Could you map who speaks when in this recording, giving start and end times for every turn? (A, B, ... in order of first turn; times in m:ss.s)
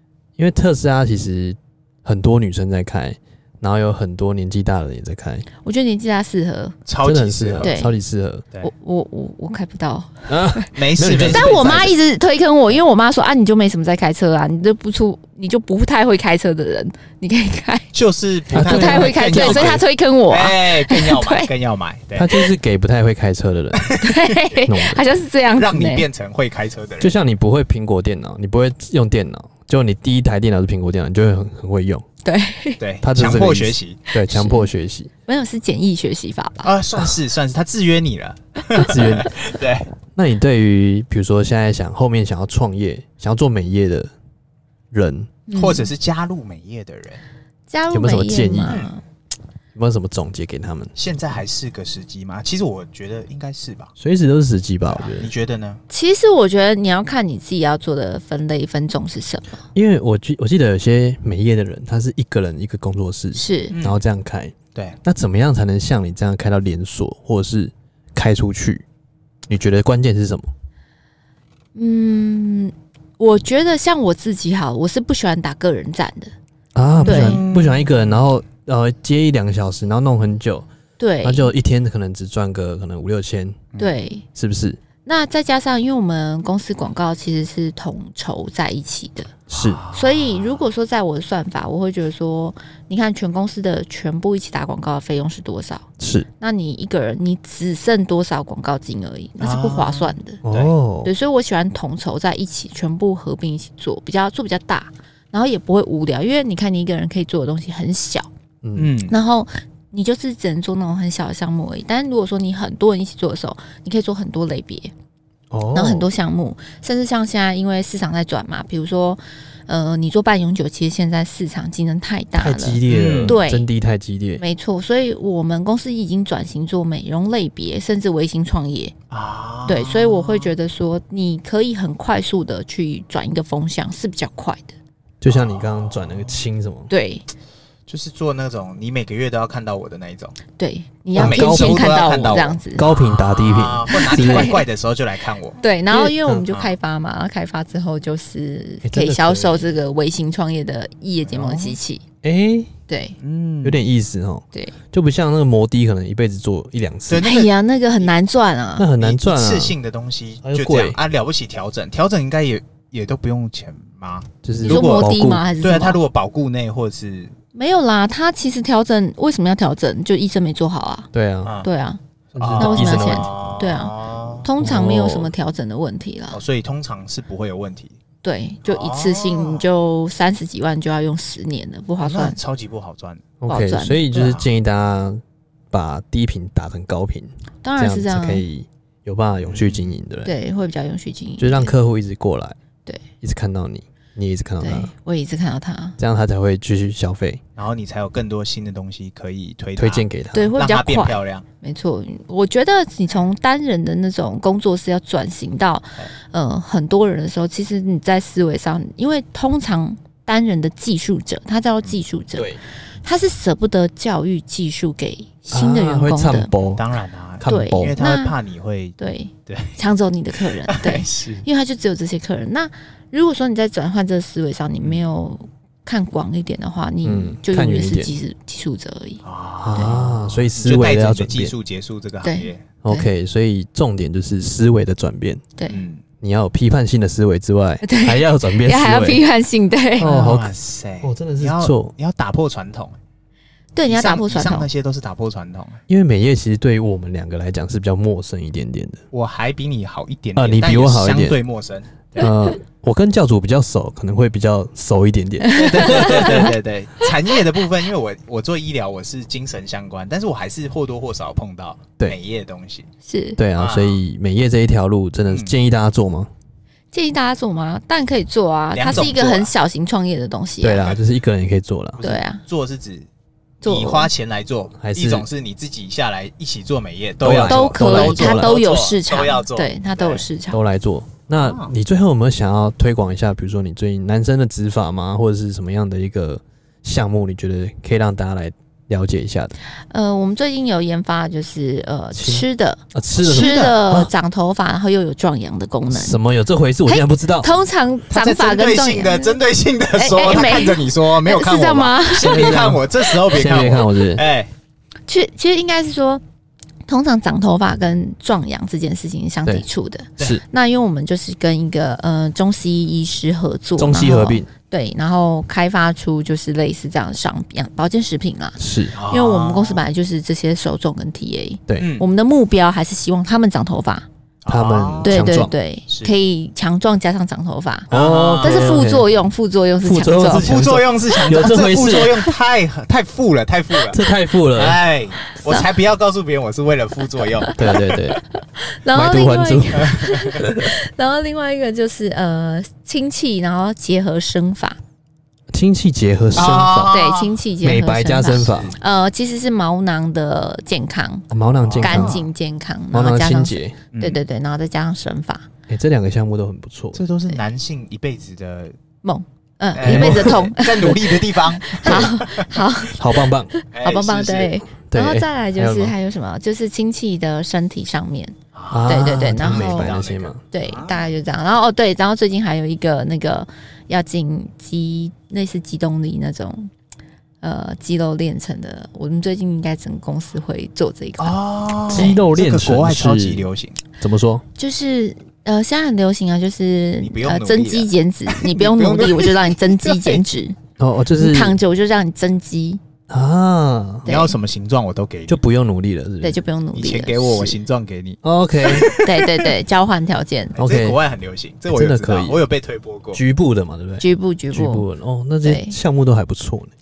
0:00.4-0:05.4 A
0:05.6-0:06.8 B
0:06.9-0:07.7 C
0:07.0-0:08.4 A
0:07.6-0:07.9 B
0:08.6-0:10.7 B
0:10.3-0:11.9 A
0:10.7-0:11.9 C
0:11.2-0:17.9 B
0:17.9-0:22.5 C
0:18.5-0:19.8 A
0:18.5-0:21.5 B
0:22.1-0:24.0 A
0:23.8-0:24.4 C
0:24.0-0:26.0 B
0:24.7-0:25.0 A
0:25.6-0:27.1 C
0:27.0-0:32.0 A
0:32.2-0:32.8 B
0:32.8-0:34.1 C
0:33.0-0:35.1 A
0:34.2-0:34.7 B
0:35.3-0:36.7 B
0:36.6-0:39.9 C
0:38.7-0:39.4 A
0:40.1-0:44.1 A
0:44.9-0:45.3 A
0:45.5-0:45.9 B
0:45.5-0:47.2 C
0:47.7-0:49.0 B
0:47.9-0:48.8 A
0:48.6-0:48.9 C
0:49.7-0:50.9 A
0:51.0-0:53.9 C
0:54.0-0:55.3 A
0:54.9-0:55.8 C
0:55.9-0:59.6 B
0:59.7-1:08.8 A
1:03.3-1:03.8 B
1:03.7-1:04.0 C
1:09.5-1:10.5 A
1:11.7-1:16.3 B
1:16.7-1:20.6 A
1:17.0-1:18.2 C
1:17.0-1:17.4 B
1:21.0-1:21.5 B
1:21.2-1:23.7 A
1:23.8-1:24.2 B
1:24.3-1:24.8 A
1:25.0-1:29.3 B
1:29.5-1:29.8 A
1:29.5-1:30.6 C
1:29.9-1:35.8 B
1:36.0-1:36.3 A
1:36.4-1:40.4 B
1:39.4-1:40.7 C
1:40.4-1:41.1 A
1:41.0-1:48.3 B
1:48.6-1:48.9 A
1:48.8-1:49.2 C
1:49.1-1:54.9 B
1:55.5-1:56.1 A
1:55.7-2:03.6 B
2:02.4-2:04.4 A
2:02.9-2:03.4 C
2:04.4-2:08.9 B
2:09.1-2:10.5 C
2:09.6-2:14.8 B
2:15.2-2:16.9 A
2:15.2-2:16.4 C
2:16.9-2:17.2 B
2:17.9-2:20.4 C
2:20.6-2:22.8 B
2:21.1-2:24.6 A
2:21.2-2:25.6 C
2:23.9-2:24.6 B
2:25.6-2:32.0 B
2:25.9-2:26.5 A
2:26.5-2:26.7 C
2:28.8-2:29.7 A
2:31.3-2:31.8 C
2:32.2-2:32.7 A
2:32.9-2:33.2 B
2:33.2-2:33.8 C
2:33.6-2:37.3 A
2:37.1-2:38.1 C
2:37.2-2:38.9 B
2:38.8-2:39.8 A
2:39.0-2:47.3 C
2:40.4-2:41.0 A
2:44.4-2:45.4 A
2:44.6-2:46.0 B
2:47.5-2:51.1 B
2:51.1-2:51.5 A
2:51.6-2:52.0 B
2:52.3-2:54.5 C
2:52.4-2:53.3 A
2:52.6-2:56.4 B
2:54.6-2:55.3 A
2:56.3-2:58.0 C
2:58.2-3:02.4 B
2:58.6-2:59.7 C
3:02.0-3:03.3 C
3:03.4-3:10.3 A
3:03.5-3:04.3 B
3:04.1-3:04.4 C
3:07.6-3:08.4 B
3:09.5-3:09.9 C
3:10.2-3:11.7 B
3:11.4-3:12.6 A
3:13.2-3:14.9 A
3:14.6-3:16.0 B
3:16.0-3:17.4 A
3:17.6-3:21.4 C
3:19.8-3:20.5 A
3:20.3-3:36.5 B
3:32.3-3:32.6 A
3:35.5-3:36.9 A
3:36.7-3:39.8 C
3:37.4-3:38.0 A
3:37.5-3:38.4 B
3:39.0-3:49.2 B
3:40.7-3:41.4 C
3:47.0-3:48.1 A
3:49.2-3:52.7 C
3:49.6-3:51.5 A
3:49.7-3:50.0 B
3:52.2-3:53.1 B
3:52.8-3:55.4 A
3:55.6-3:55.8 B
3:55.7-3:56.0 C
3:56.2-3:59.2 A
3:57.8-4:00.1 B
4:00.0-4:00.5 A
4:00.0-4:03.0 C
4:01.0-4:01.9 A
4:03.7-4:04.7 B
4:03.9-4:05.8 C
4:05.9-4:09.0 A
4:09.1-4:12.3 C
4:10.4-4:11.4 A
4:12.2-4:16.5 A
4:15.4-4:16.5 B
4:15.6-4:22.9 C
4:23.0-4:23.4 B
4:23.4-4:26.3 A
4:23.6-4:24.0 C
4:25.3-4:25.5 C
4:26.9-4:30.9 B
4:28.7-4:29.5 C
4:30.6-4:32.0 A
4:32.0-4:33.1 C
4:32.0-4:32.4 B
4:33.6-4:34.1 B
4:33.6-4:40.2 C
4:34.8-4:35.2 A
4:37.2-4:38.6 A
4:37.4-4:40.6 B
4:40.5-4:49.5 A
4:41.4-4:41.7 C
4:49.9-4:56.2 B
4:52.1-4:54.1 A
4:53.2-4:53.8 C
4:55.9-4:57.5 A
4:56.8-4:59.4 B
4:58.1-5:04.5 C
4:59.9-5:02.5 B
5:02.2-5:04.2 A
5:05.1-5:06.2 B
5:06.9-5:24.1 B
5:13.8-5:14.5 A
5:18.6-5:18.9 A
5:18.9-5:19.8 C
5:21.8-5:22.1 C
5:24.4-5:25.2 C
5:24.5-5:25.5 A
5:25.0-5:27.9 B
5:27.9-5:28.9 C
5:27.9-5:29.1 A
5:28.4-5:30.4 B
5:29.8-5:32.2 A
5:30.3-5:37.7 C
5:33.9-5:34.8 A
5:37.4-5:44.8 B
5:37.6-5:38.2 A
5:38.9-5:40.7 A
5:39.8-5:40.4 C
5:45.5-5:46.9 A
5:46.3-5:47.4 C
5:46.9-5:51.3 B
5:47.6-5:48.7 A
5:48.5-5:48.7 C
5:51.3-5:52.2 A
5:51.6-5:52.3 C
5:51.8-5:55.5 B
5:52.9-5:53.8 A
5:53.9-5:54.2 C
5:55.7-5:57.0 A
5:56.9-5:58.8 C
5:59.0-6:08.3 B
5:59.7-6:02.5 C
5:59.8-6:00.9 A
6:02.9-6:03.5 A
6:03.7-6:04.6 C
6:04.9-6:05.9 A
6:08.5-6:11.1 C
6:08.7-6:10.4 A
6:08.9-6:10.0 B
6:10.5-6:16.7 B
6:17.4-6:22.2 B
6:21.2-6:23.8 C
6:21.9-6:23.4 A
6:24.0-6:24.4 A
6:24.6-6:30.6 B
6:27.0-6:30.2 C
6:30.8-6:31.6 A
6:31.2-6:32.8 B
6:33.1-6:34.1 A
6:34.0-6:34.4 B
6:34.1-6:35.4 C
6:35.3-6:36.4 A
6:36.2-6:37.6 B
6:36.7-6:39.4 C
6:38.2-6:39.0 A
6:38.9-6:40.6 B
6:40.5-6:43.2 C
6:40.6-6:41.0 A
6:41.7-6:42.4 A
6:43.1-6:46.7 A
6:44.0-6:44.8 B
6:45.4-6:45.8 B